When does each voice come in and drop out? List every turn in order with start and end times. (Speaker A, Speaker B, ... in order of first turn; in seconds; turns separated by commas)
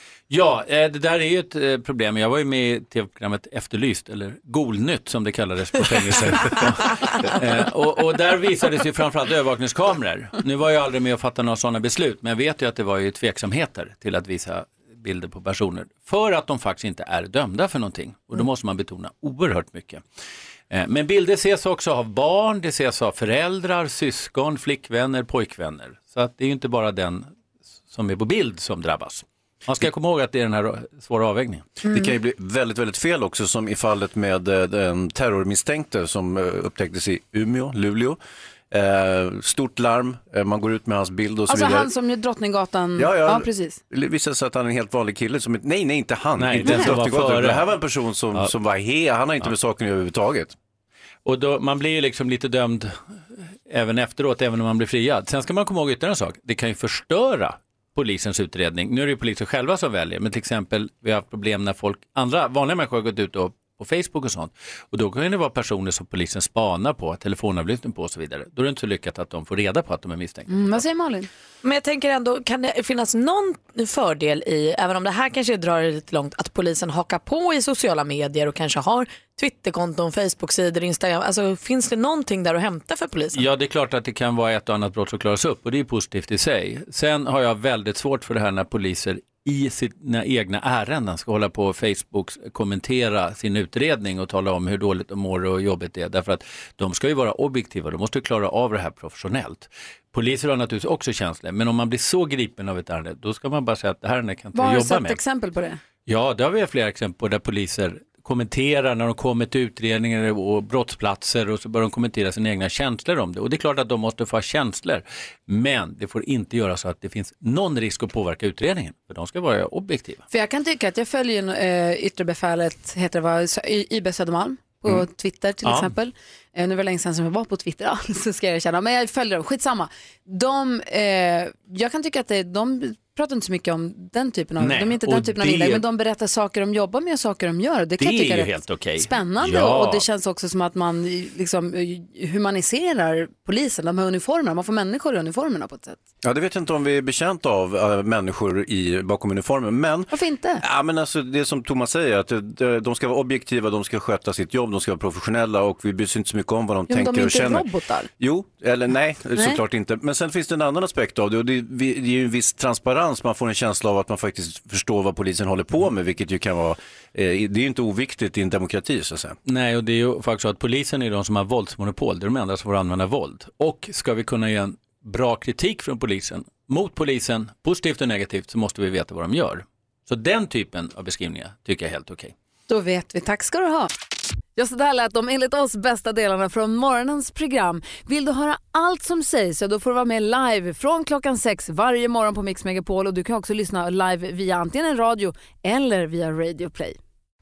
Speaker A: 0.3-20.0, Speaker A: 20.7-27.3, Speaker A: 27.9-31.7, Speaker B: 31.8-38.2, Speaker B: 38.7-41.9, Speaker C: 41.5-43.8, Speaker B: 43.0-50.5, Speaker A: 46.4-47.7, Speaker C: 46.6-46.9, Speaker A: 51.2-53.0, Speaker A: 53.7-70.6, Speaker C: 70.5-71.3, Speaker D: 71.6-83.5, Speaker A: 83.3-105.2, Speaker C: 104.5-105.8, Speaker A: 106.1-120.2, Speaker C: 120.3-146.0, Speaker A: 125.6-125.9, Speaker A: 134.6-135.8, Speaker A: 138.0-140.0, Speaker B: 146.2-157.7, Speaker C: 150.1-150.6, Speaker C: 156.9-158.1, Speaker B: 158.2-169.4, Speaker C: 159.3-159.6, Speaker A: 169.5-182.3, Speaker C: 182.7-183.9, Speaker C: 184.6-197.0